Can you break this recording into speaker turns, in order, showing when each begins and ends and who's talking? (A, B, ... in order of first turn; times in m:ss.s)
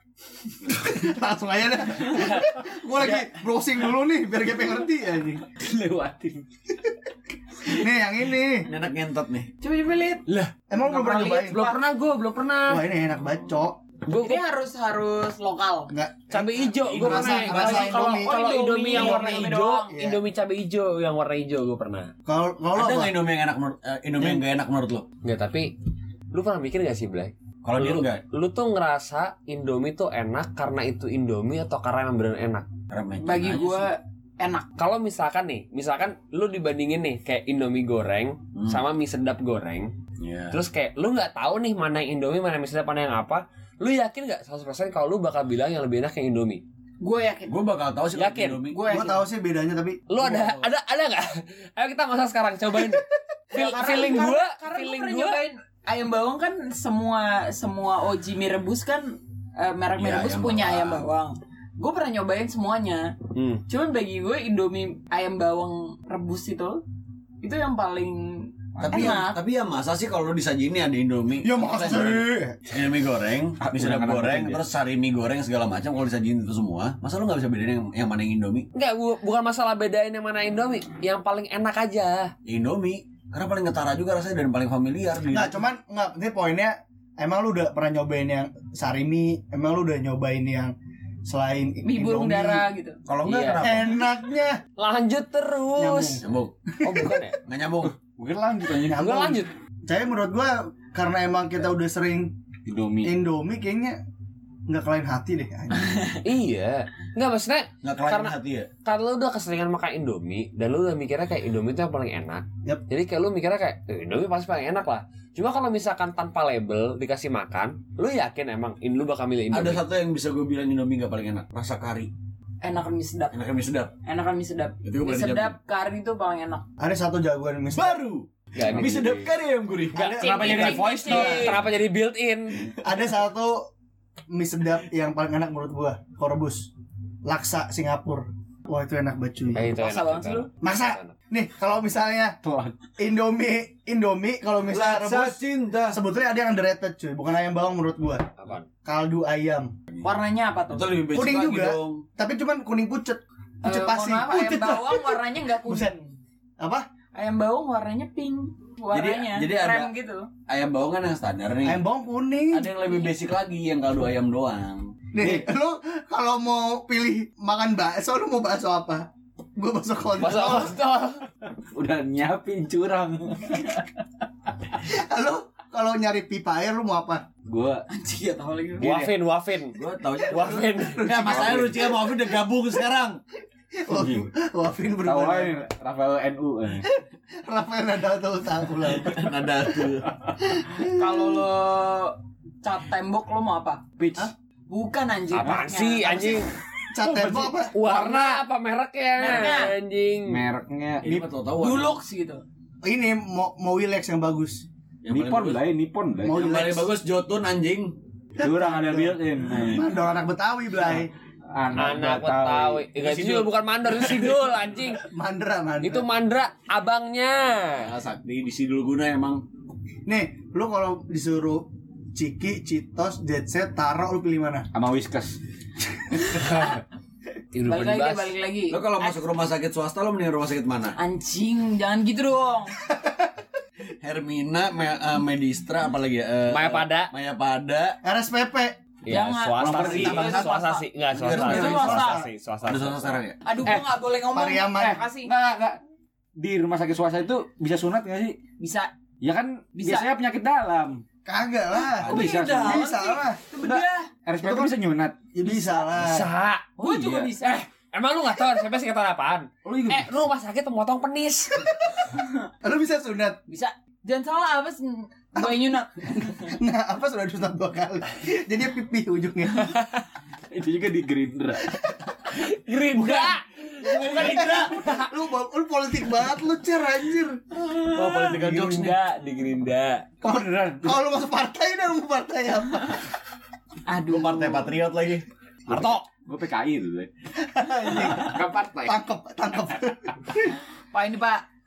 0:00.7-0:05.4 A
0:02.2-0:02.4 B
0:05.5-0:06.4 C
0:07.7-0:08.7 A
0:08.7-0:09.5 D
0:09.6-0:10.2 E
0:10.3-0:10.5 B
0:10.7-0:11.6 A
0:10.8-0:11.8 E
0:11.4-0:12.8 B
0:12.7-0:13.8 A
0:14.1-0:14.4 B
0:14.2-0:15.9 E
0:15.9-0:18.4 A
0:16.3-0:22.1 B
0:16.8-0:17.9 D
0:17.5-0:20.0 E
0:18.9-0:20.2 A
0:22.3-0:23.2 A
0:22.8-0:25.1 D
0:25.2-0:25.7 B
0:26.3-0:32.7 B
0:27.6-0:28.2 D
0:32.9-0:33.9 D
0:33.2-0:34.7 E
0:34.8-0:39.9 B
0:38.6-0:38.8 D
0:40.2-0:40.6 D
0:40.5-0:46.6 B
0:47.0-0:47.6 E
0:47.5-0:48.9 D
0:48.1-0:48.6 B
0:48.7-0:49.2 E
0:48.9-0:50.6 A
0:50.1-0:55.4 B
0:53.5-1:03.2 E
1:00.0-1:01.0 D
1:03.4-1:03.6 B
1:03.7-1:06.8 E
1:07.4-1:09.4 E
1:08.8-1:09.3 C
1:08.8-1:18.7 D
1:11.4-1:12.6 A
1:13.6-1:14.6 C
1:18.7-1:22.3 B
1:22.4-1:25.6 D
1:25.3-1:32.7 A
1:31.8-1:33.0 E
1:33.1-1:34.0 D
1:33.2-1:33.7 B
1:33.6-1:34.6 A
1:34.8-1:36.2 B
1:35.8-1:37.4 A
1:36.2-1:36.5 D
1:36.8-1:37.4 B
1:37.4-1:38.0 D
1:38.0-1:39.0 C
1:38.6-1:42.4 A
1:38.9-1:39.5 B
1:42.7-1:43.1 C
1:43.0-1:44.0 A
1:44.7-1:46.0 A
1:46.2-1:59.8 B
1:47.8-1:48.7 D
1:59.5-2:02.1 D
2:02.6-2:03.4 E
2:03.3-2:03.9 D
2:04.0-2:06.6 E
2:04.8-2:05.6 D
2:06.8-2:08.0 A
2:07.7-2:10.7 D
2:08.6-2:09.1 B
2:08.6-2:09.3 C
2:09.9-2:10.4 A
2:10.1-2:11.6 E
2:10.1-2:11.6 C
2:10.4-2:12.7 B
2:12.8-2:13.7 A
2:14.3-2:16.7 A
2:17.2-2:19.7 A
2:19.5-2:21.1 B
2:19.8-2:20.5 E
2:20.6-2:22.4 A
2:22.4-2:22.8 C
2:23.0-2:28.3 A
2:24.7-2:26.0 D
2:28.4-2:28.7 B
2:28.8-2:29.7 A
2:30.0-2:31.0 E
2:30.7-2:32.0 D
2:31.1-2:35.9 A
2:33.6-2:36.2 E
2:36.6-2:36.8 A
2:37.1-2:40.3 E
2:38.9-2:39.9 D
2:40.5-2:41.8 D
2:41.6-2:42.7 A
2:42.5-2:45.4 D
2:45.1-2:50.7 A
2:50.2-2:51.2 B
2:51.7-2:53.9 C
2:54.8-2:57.2 A
2:57.4-2:57.9 C
2:57.9-2:58.9 E
2:58.8-2:59.8 B
2:58.8-2:59.1 C
2:59.7-3:03.2 D
3:00.3-3:01.6 B
3:00.3-3:02.0 A
3:03.8-3:05.6 A
3:03.9-3:04.3 C
3:05.0-3:06.9 C
3:06.8-3:09.3 A
3:09.0-3:10.1 D
3:10.4-3:11.4 A
3:11.0-3:13.8 E
3:14.0-3:14.3 C
3:14.7-3:16.4 E
3:15.3-3:16.5 B
3:16.9-3:17.8 A
3:17.0-3:18.4 C
3:17.7-3:20.4 B
3:19.2-3:19.7 E
3:20.3-3:21.1 C
3:21.0-3:22.0 D
3:21.6-3:22.4 E
3:22.8-3:24.7 A
3:25.0-3:25.7 D
3:25.1-3:26.4 C
3:26.2-3:26.9 A
3:26.3-3:28.0 D
3:28.4-3:29.8 C
3:28.4-3:31.1 A
3:29.5-3:29.8 D
3:31.5-3:32.9 C
3:31.7-3:35.0 B
3:33.0-3:33.5 D
3:35.1-3:36.1 A
3:35.8-3:37.9 B
3:37.8-3:39.4 D
3:40.1-3:44.7 A
3:44.7-3:45.4 C
3:46.2-3:46.8 C
3:47.5-3:48.3 B
3:47.6-3:49.2 E
3:48.7-3:51.0 D
3:51.0-3:52.8 E
3:52.9-3:53.3 A
3:54.0-3:58.0 D
3:56.5-3:57.1 B
3:58.0-3:58.8 A
3:59.1-4:03.2 B
3:59.1-4:02.2 E
3:59.6-4:00.5 D
4:01.2-4:02.0 D
4:01.3-4:02.3 A
4:02.7-4:03.4 D
4:03.4-4:05.3 E
4:03.6-4:03.9 C
4:04.3-4:05.0 A
4:04.8-4:05.8 C
4:06.4-4:08.4 C
4:08.6-4:08.9 E
4:09.2-4:11.0 C
4:09.8-4:10.1 E
4:11.2-4:13.4 A
4:12.0-4:12.8 D
4:12.0-4:14.1 E
4:12.1-4:12.8 C
4:13.6-4:15.2 C
4:14.4-4:14.7 A
4:15.3-4:16.3 A
4:15.9-4:16.7 B
4:16.8-4:17.6 E
4:16.8-4:17.6 C
4:17.9-4:21.9 B
4:19.6-4:20.1 C
4:22.2-4:22.5 E
4:22.6-4:23.4 A
4:23.5-4:26.5 E
4:25.4-4:29.7 A
4:29.7-4:30.0 B
4:30.5-4:31.7 C
4:31.7-4:32.1 A
4:32.3-4:35.1 B
4:33.1-4:33.3 C
4:33.9-4:34.7 D
4:33.9-4:37.4 A
4:37.7-4:40.1 B
4:37.8-4:39.0 D
4:40.2-4:41.0 C
4:40.2-4:43.1 A
4:43.9-4:44.8 E
4:44.0-4:45.2 D
4:45.7-4:47.1 C
4:45.7-4:46.0 B
4:47.4-4:50.6 A
4:47.9-4:49.0 C
4:50.9-4:51.4 E